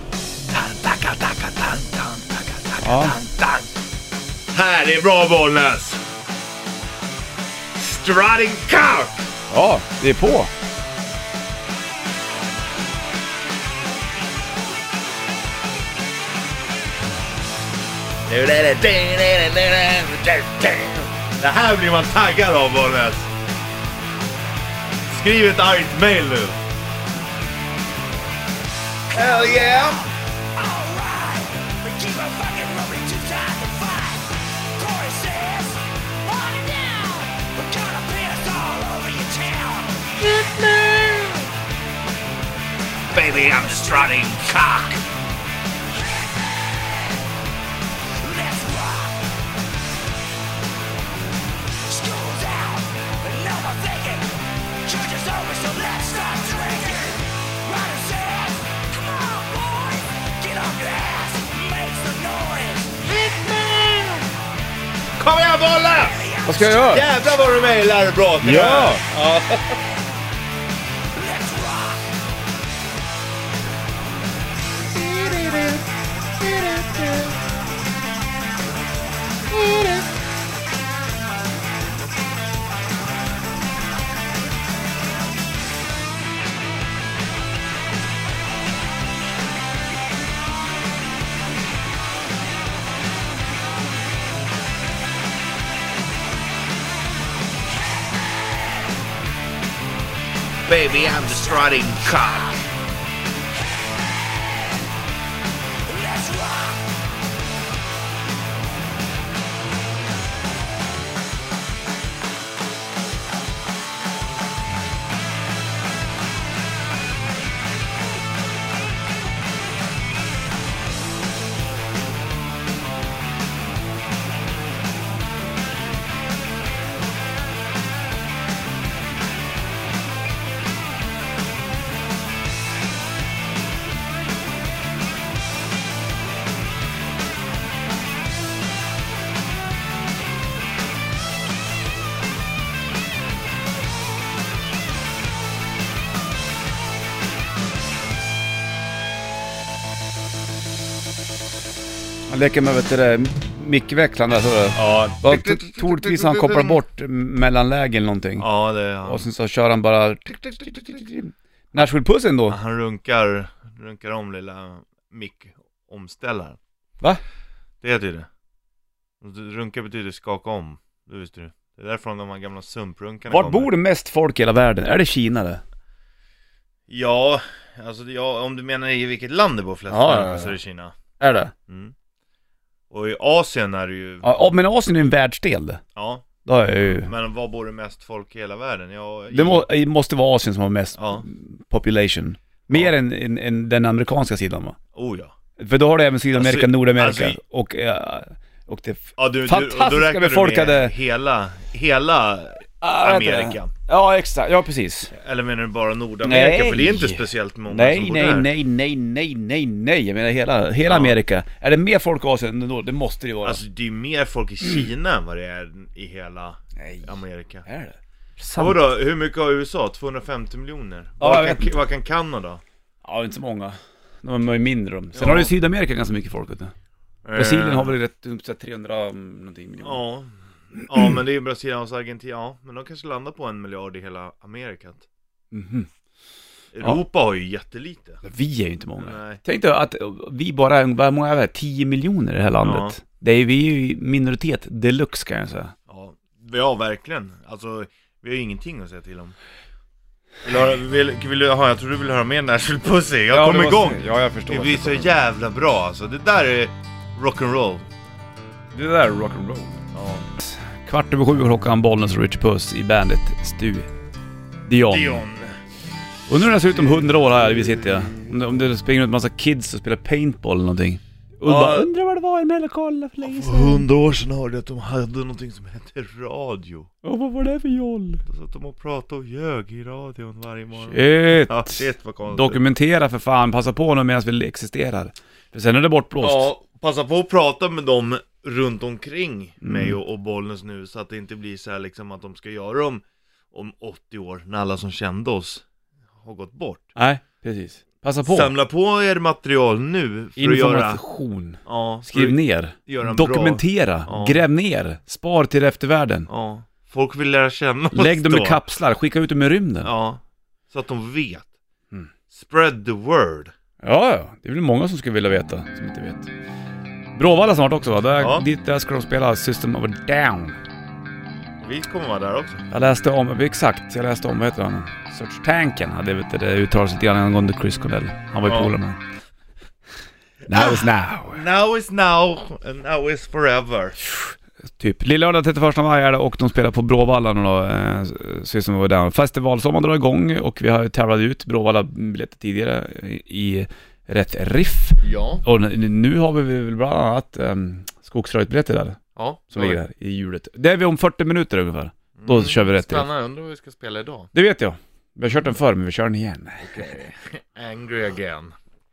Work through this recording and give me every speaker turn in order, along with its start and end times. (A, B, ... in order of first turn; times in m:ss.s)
0:00.5-0:03.7 A
0:02.8-0:03.2 B
0:04.5-0:06.0 A
0:07.8-0:09.3 A
0:09.5-0:10.5 B
0:18.3-0:23.3 A
0:25.1-0:26.6 A
0:29.1-0:40.3 C
0:29.1-0:30.0 A
0:40.3-0:41.3 A
0:43.2-0:44.3 C
0:43.2-0:45.0 A
0:48.2-0:49.2 C
0:51.9-1:03.1 C
1:03.1-1:04.2 A
1:05.2-1:06.2 A
1:06.0-1:07.4 C
1:06.4-1:07.0 B
1:06.9-1:09.8 A
1:08.4-1:09.0 B
1:11.2-1:12.0 C
1:14.9-1:15.8 A
1:16.4-1:17.3 A
1:19.5-1:20.0 A
1:40.7-1:42.5 A
1:41.1-1:41.8 C
1:45.9-1:46.8 C
2:32.3-2:38.5 B
2:34.8-2:36.8 A
2:38.4-2:39.2 A
2:39.0-2:42.6 B
2:40.4-2:40.8 A
2:42.5-2:46.6 A
2:47.8-2:48.3 A
2:49.2-2:53.7 A
2:53.3-2:55.6 B
2:56.9-3:00.9 A
2:59.9-3:00.5 B
3:01.2-3:01.5 B
3:01.7-3:01.9 A
3:02.9-3:04.5 A
3:04.2-3:05.8 B
3:06.0-3:09.6 A
3:06.4-3:07.1 B
3:09.3-3:14.8 B
3:11.0-3:11.2 A
3:15.0-3:15.3 A
3:15.6-3:20.9 B
3:16.3-3:17.4 A
3:19.2-3:23.7 A
3:22.8-3:25.1 B
3:25.1-3:28.5 A
3:26.2-3:33.6 B
3:30.9-3:31.2 A
3:33.4-3:37.6 A
3:36.8-3:37.2 B
3:37.7-3:38.8 B
3:38.6-3:42.6 A
3:41.2-3:41.7 B
3:43.0-3:46.7 B
3:45.2-3:45.5 A
3:47.2-3:48.0 A
3:47.4-3:50.0 B
3:49.8-3:50.3 A
3:50.8-3:55.0 A
3:55.5-3:55.9 B
3:56.7-3:58.2 A
3:58.2-4:05.7 B
3:59.0-3:59.4 A
4:02.6-4:03.0 A
4:05.9-4:09.3 A
4:10.4-4:17.9 A
4:13.3-4:15.1 B
4:18.7-4:19.8 B
4:19.9-4:20.3 A
4:20.4-4:23.9 B
4:24.7-4:25.2 B
4:24.9-4:25.5 A
4:26.3-4:33.8 B
4:26.8-4:28.3 A
4:31.4-4:31.9 A
4:33.2-4:36.9 A
4:37.0-4:38.2 B
4:38.3-4:42.6 A
4:40.9-4:46.5 B
4:46.2-4:55.6 A
4:49.6-4:50.0 B
4:56.2-4:56.9 A
4:57.0-4:58.5 B
4:58.3-5:01.0 A
5:00.4-5:06.3 B
5:01.7-5:04.4 A
5:06.3-5:08.6 A
5:07.9-5:09.9 B
5:09.8-5:10.2 A
5:10.7-5:11.5 A
5:12.3-5:13.5 A
5:13.8-5:16.3 B
5:17.2-5:20.6 B
5:18.2-5:18.4 A
5:21.6-5:22.6 A
5:22.7-5:29.0 B
5:28.5-5:28.7 A
5:30.5-5:31.4 B
5:30.5-5:34.0 A
5:34.1-5:49.0 B
5:45.0-5:45.4 A
5:49.2-5:49.8 A
5:49.5-5:53.1 B
5:52.2-5:54.3 A
5:54.3-5:56.9 B
5:56.6-5:58.5 A